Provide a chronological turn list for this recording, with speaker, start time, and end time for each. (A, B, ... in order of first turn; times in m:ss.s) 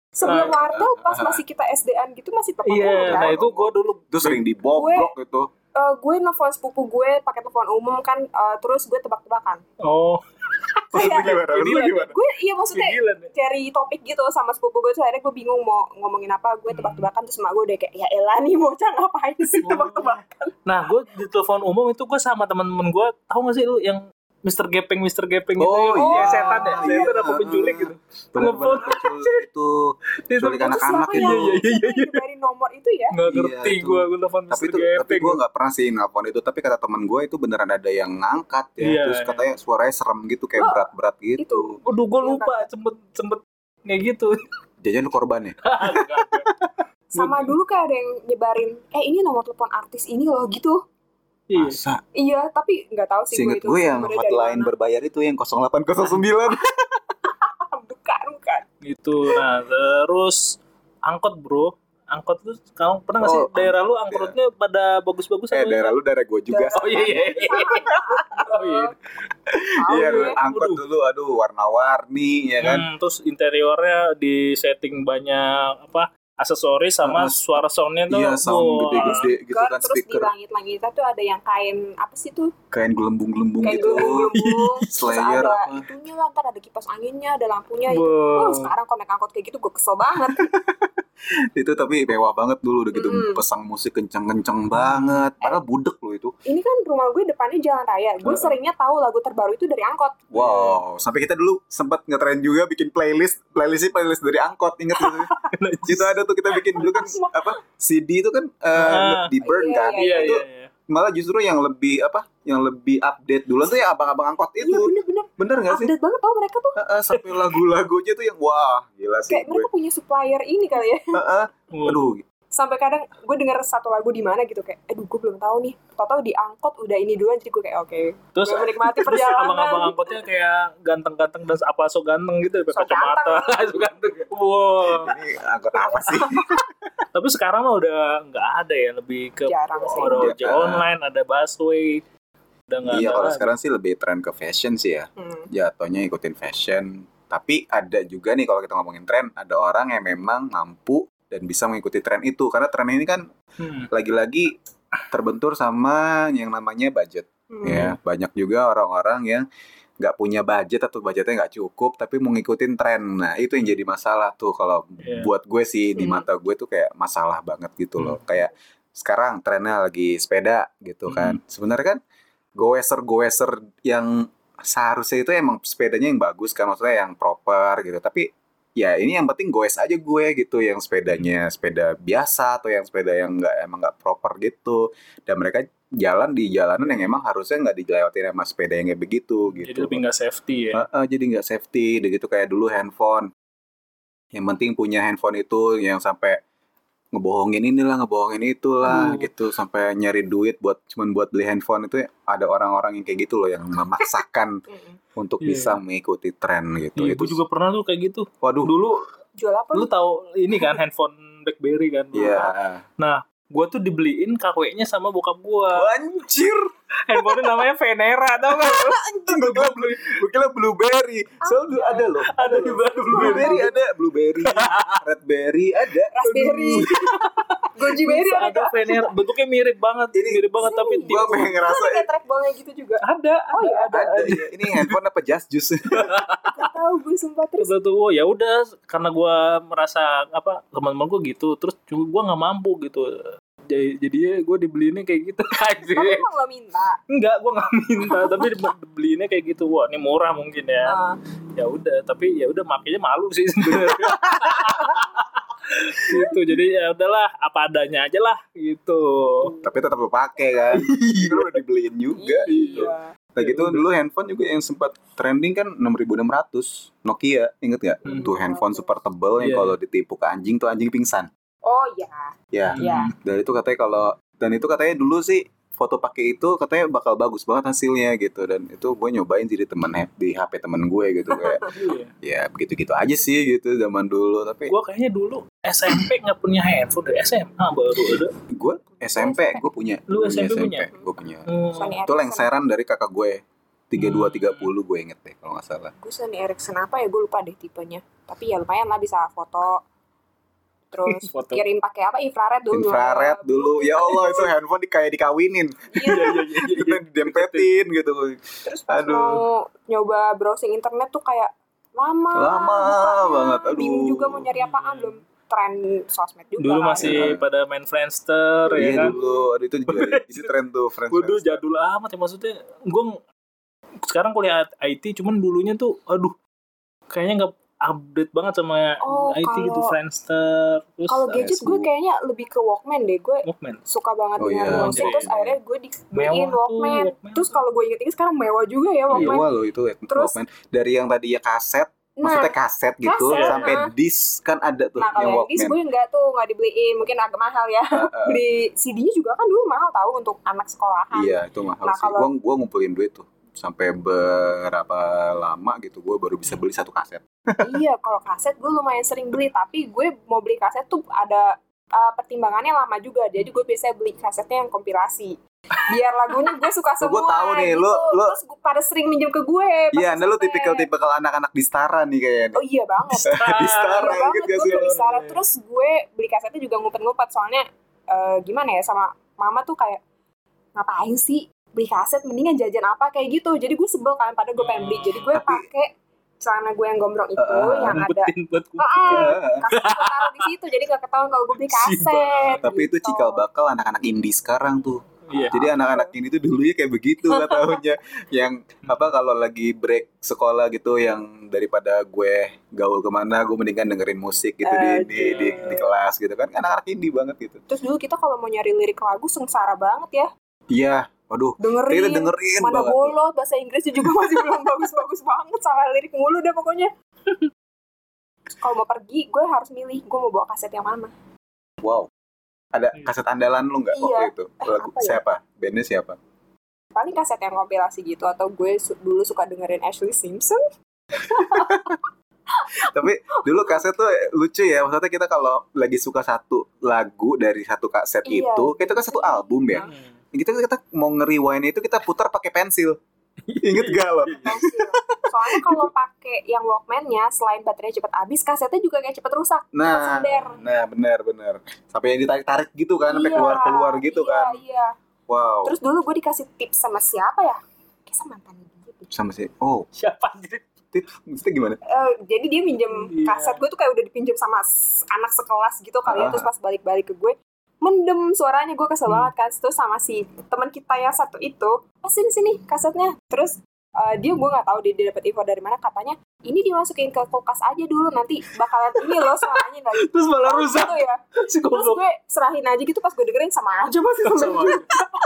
0:00.2-0:03.4 A
0:00.2-0:01.4 B
0:00.2-0:00.6 C
0:02.6-0:04.4 C
0:03.0-0:05.5 B
0:04.7-0:05.1 A
0:05.8-0:09.6 A
0:09.8-0:10.2 C
0:10.8-0:12.1 C
0:10.9-0:12.1 B
0:10.9-0:20.6 A
0:12.7-0:13.3 C
0:16.7-0:17.1 C
0:19.6-0:29.4 C
0:25.6-0:31.5 B
0:26.0-0:27.1 A
0:30.3-0:32.2 C
0:30.6-0:33.1 A
0:33.1-0:35.4 C
0:33.3-0:41.8 B
0:38.8-0:39.4 C
0:40.6-0:40.8 A
0:41.4-0:42.6 A
0:41.8-0:44.4 C
0:44.8-0:46.4 B
0:45.6-0:46.5 C
0:47.1-0:50.8 A
0:47.2-0:47.5 C
0:51.5-0:51.8 C
0:51.5-0:52.0 B
0:52.2-0:54.7 A
0:53.3-0:57.0 B
0:57.5-0:58.6 A
0:58.8-1:06.0 C
1:03.2-1:04.4 B
1:05.5-1:07.2 B
1:06.5-1:08.9 A
1:06.7-1:08.9 C
1:07.7-1:08.0 B
1:09.5-1:12.8 B
1:09.8-1:10.4 A
1:09.9-1:10.8 C
1:12.6-1:19.3 C
1:17.0-1:20.3 B
1:19.0-1:22.5 A
1:22.7-1:24.3 B
1:23.6-1:30.5 A
1:23.9-1:24.9 C
1:24.9-1:25.8 B
1:27.9-1:28.7 C
1:30.2-1:30.9 B
1:31.5-1:36.3 B
1:32.9-1:33.4 A
1:34.7-1:35.3 C
1:36.4-1:40.2 A
1:40.3-1:55.9 B
1:40.3-1:40.8 C
1:45.0-1:46.1 C
1:46.8-1:47.5 A
1:48.8-1:49.3 C
1:49.4-1:50.4 A
1:49.9-1:50.7 C
1:54.6-1:56.8 A
1:56.8-1:59.7 B
1:57.1-1:57.6 C
1:59.3-2:01.1 A
2:01.1-2:02.2 B
2:01.7-2:02.1 C
2:02.5-2:10.2 A
2:08.3-2:15.1 C
2:12.7-2:13.8 A
2:14.8-2:16.6 B
2:17.1-2:22.0 C
2:19.4-2:20.3 A
2:20.1-2:20.9 B
2:22.7-2:23.5 C
2:22.9-2:33.2 B
2:25.2-2:25.5 A
2:33.6-2:33.9 C
2:33.9-2:34.5 B
2:35.1-2:39.4 B
2:37.5-2:37.8 A
2:37.6-2:38.0 C
2:40.0-2:52.0 B
2:45.0-2:45.3 C
2:46.0-2:46.2 A
2:48.0-2:48.2 C
2:51.1-2:51.4 C
2:52.6-3:10.0 B
3:06.8-3:07.2 C
3:09.5-3:10.8 C
3:10.7-3:13.3 B
3:14.3-3:16.4 B
3:17.1-3:24.6 B
3:18.8-3:19.3 C
3:24.7-3:25.0 A
3:25.2-3:27.4 B
3:25.4-3:25.8 C
3:27.0-3:29.0 C
3:28.4-3:28.7 B
3:29.4-3:29.9 A
3:29.7-3:35.9 C
3:32.1-3:32.8 B
3:35.7-3:37.4 B
3:37.0-3:40.1 C
3:38.5-3:46.9 B
3:41.4-3:42.0 A
3:42.2-3:43.7 C
3:43.1-3:43.7 A
3:44.4-3:45.0 C
3:46.1-3:46.9 A
3:47.7-3:49.1 A
3:48.0-3:51.5 C
3:50.1-3:50.4 B
3:50.6-3:54.0 A
3:51.0-3:52.0 B
3:53.0-3:55.0 C
3:53.9-3:56.1 B
3:55.9-3:56.6 C
3:56.5-3:57.7 A
3:57.6-4:06.2 C
4:05.9-4:07.0 A
4:07.1-4:11.0 C
4:08.1-4:08.4 A
4:10.8-4:11.2 A
4:11.6-4:19.5 C
4:13.6-4:14.9 B
4:19.4-4:19.8 A
4:19.6-4:31.3 B
4:20.7-4:21.6 C
4:22.1-4:23.1 A
4:22.5-4:23.8 C
4:28.0-4:28.9 A
4:28.0-4:28.3 C
4:29.4-4:29.8 C
4:31.6-4:33.1 A
4:32.5-4:41.7 B
4:32.7-4:33.1 C
4:41.3-4:41.8 A
4:41.7-4:42.1 C
4:42.2-4:44.7 B
4:44.7-4:48.3 C
4:48.0-4:51.4 B
4:49.2-4:49.6 C
4:50.1-4:50.9 C
4:51.4-4:52.0 C
4:51.7-4:52.5 A
4:52.0-4:55.9 B
4:54.0-4:54.7 C
4:56.0-4:59.8 A
5:00.9-5:04.5 A
5:01.0-5:01.6 C
5:02.7-5:09.4 B
5:04.1-5:04.4 C
5:05.9-5:06.3 A
5:06.0-5:07.7 C
5:08.6-5:17.3 A
5:12.3-5:14.5 B
5:14.5-5:15.2 C
5:16.6-5:19.1 C
5:17.0-5:17.4 B
5:18.7-5:19.5 A
5:18.8-5:21.6 B
5:19.9-5:20.5 C
5:21.1-5:23.2 C
5:24.1-5:26.4 C
5:27.1-5:31.4 C
5:29.0-5:29.9 A
5:31.1-5:39.4 A
5:31.3-5:31.9 B
5:33.4-5:33.8 C
5:34.4-5:35.6 B
5:34.7-5:35.2 C
5:36.1-5:37.6 C
5:39.1-5:39.4 C
5:39.1-5:45.8 B
5:40.1-5:40.4 A
5:42.2-5:42.5 A
5:43.0-5:43.9 A
5:43.3-5:43.8 C
5:45.0-5:52.3 A
5:47.9-5:48.4 B
5:51.1-5:57.7 B
5:57.6-6:05.4 A
6:05.9-6:10.9 A
6:07.0-6:08.4 B
6:09.9-6:12.6 B
6:12.5-6:20.0 A
6:13.2-6:15.0 B
6:13.3-6:15.4 C
6:20.8-6:25.9 A
6:24.6-6:25.3 C
6:25.3-6:25.6 B
6:26.4-6:33.4 A
6:27.4-6:28.0 B
6:27.9-6:30.5 C
6:29.1-6:29.7 B
6:31.6-6:32.7 C
6:32.6-6:47.6 B
6:35.2-6:35.6 C
6:35.4-6:36.1 A
6:38.8-6:39.1 C
6:44.6-6:45.9 A
6:45.1-6:45.8 C
6:47.7-6:50.3 A
6:50.7-6:53.1 B
6:51.6-6:56.9 A
6:58.6-7:01.1 A
7:01.8-7:02.1 B
7:02.7-7:06.2 B
7:03.9-7:05.2 A
7:06.9-7:10.6 A
7:11.2-7:12.0 A
7:11.5-7:12.0 B
7:12.5-7:13.1 A
7:12.9-7:23.0 B
7:18.2-7:19.9 A
7:19.8-7:20.1 C
7:23.4-7:24.6 C
7:23.6-7:25.9 B
7:24.4-7:30.6 A
7:29.7-7:34.6 B
7:33.1-7:34.9 A
7:35.3-7:35.7 B
7:35.6-7:39.1 A
7:39.1-7:39.9 B
7:40.0-7:40.6 C
7:40.9-7:41.8 B
7:41.9-8:05.0 A
7:42.9-7:43.6 C
7:46.1-7:46.5 B
7:59.0-8:02.0 C
8:04.2-8:04.9 C